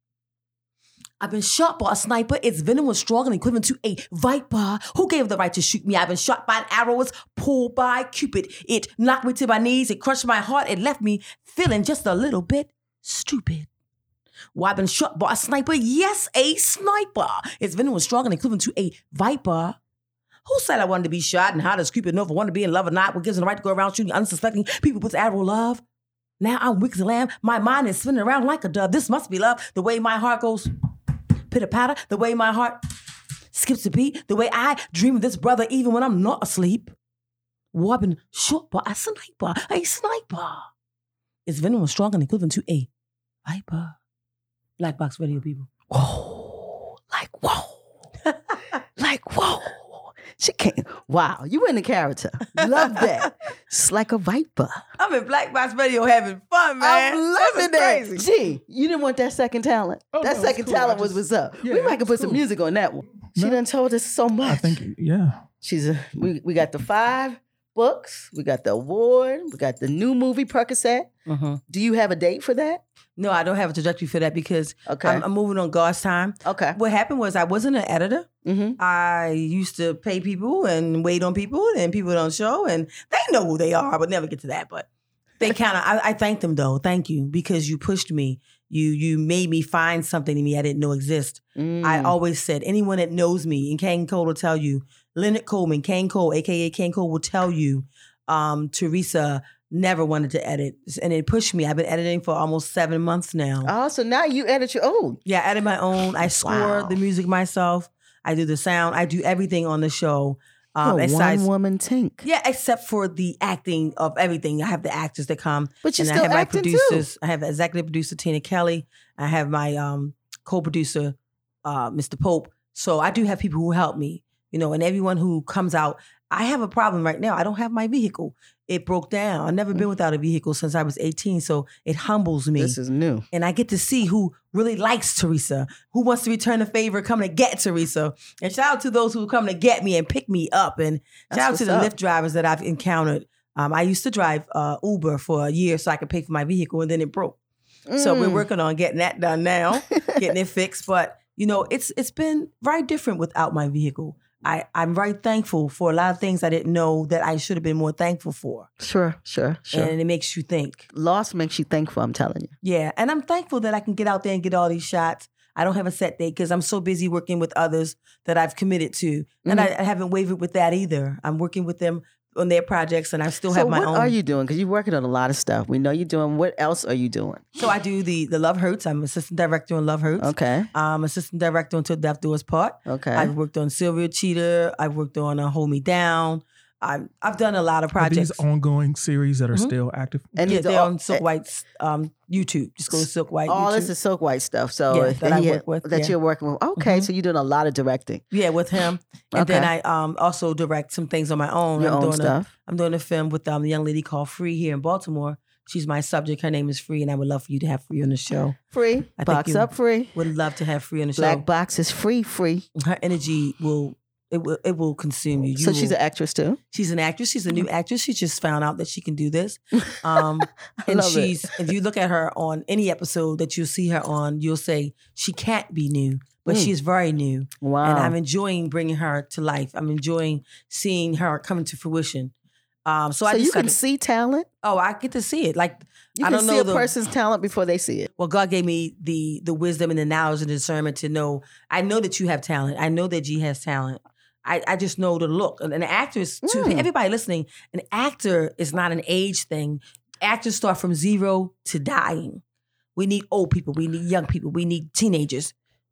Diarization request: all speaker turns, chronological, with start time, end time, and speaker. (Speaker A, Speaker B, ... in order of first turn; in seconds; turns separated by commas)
Speaker A: 1.2-13.7, Speaker A: 14.5-19.8, Speaker A: 20.5-25.8, Speaker A: 26.4-30.7, Speaker A: 31.5-32.8, Speaker A: 33.5-36.9, Speaker A: 37.7-40.7, Speaker A: 41.5-42.9, Speaker A: 43.5-44.0, Speaker A: 44.8-45.7, Speaker B: 45.9-47.8, Speaker B: 49.0-54.8, Speaker A: 52.6-53.2, Speaker A: 55.0-58.3, Speaker B: 56.8-64.8, Speaker C: 60.1-62.4, Speaker C: 63.3-63.6, Speaker C: 64.4-65.5, Speaker B: 65.6-71.1, Speaker A: 71.3-71.6, Speaker B: 71.7-72.8, Speaker A: 73.2-78.3, Speaker B: 74.9-75.2, Speaker B: 76.5-76.8, Speaker B: 78.5-78.8, Speaker A: 78.8-84.9, Speaker A: 85.4-103.7, Speaker B: 91.6-92.2, Speaker B: 103.7-105.2, Speaker A: 105.3-111.5, Speaker B: 106.2-107.0, Speaker B: 110.8-112.2, Speaker A: 112.2-132.8, Speaker B: 115.8-117.1, Speaker B: 132.6-133.3, Speaker A: 133.3-147.4, Speaker B: 141.3-141.9, Speaker B: 147.9-148.5, Speaker A: 148.0-158.7, Speaker B: 149.9-150.2, Speaker B: 158.8-159.9, Speaker A: 159.7-160.9, Speaker B: 160.9-162.5, Speaker A: 162.6-174.1, Speaker B: 173.5-177.6, Speaker A: 177.6-188.4, Speaker B: 180.2-180.7, Speaker B: 182.9-183.3, Speaker C: 188.0-190.5, Speaker B: 190.3-191.2, Speaker A: 190.4-193.9, Speaker B: 192.9-198.2, Speaker A: 194.9-196.2, Speaker A: 196.8-197.1, Speaker A: 198.3-208.6, Speaker B: 199.3-199.7, Speaker B: 201.8-202.5, Speaker B: 208.7-210.2, Speaker A: 209.2-211.4, Speaker B: 211.2-212.7, Speaker A: 212.8-216.0, Speaker B: 215.6-216.6, Speaker A: 216.7-232.3, Speaker B: 219.8-220.2, Speaker B: 220.8-221.5, Speaker B: 226.5-226.7, Speaker B: 227.6-228.2, Speaker A: 232.9-233.8, Speaker B: 233.3-234.5, Speaker A: 234.6-236.9, Speaker B: 236.2-238.1, Speaker A: 238.2-252.4, Speaker B: 246.4-246.9, Speaker A: 253.0-255.5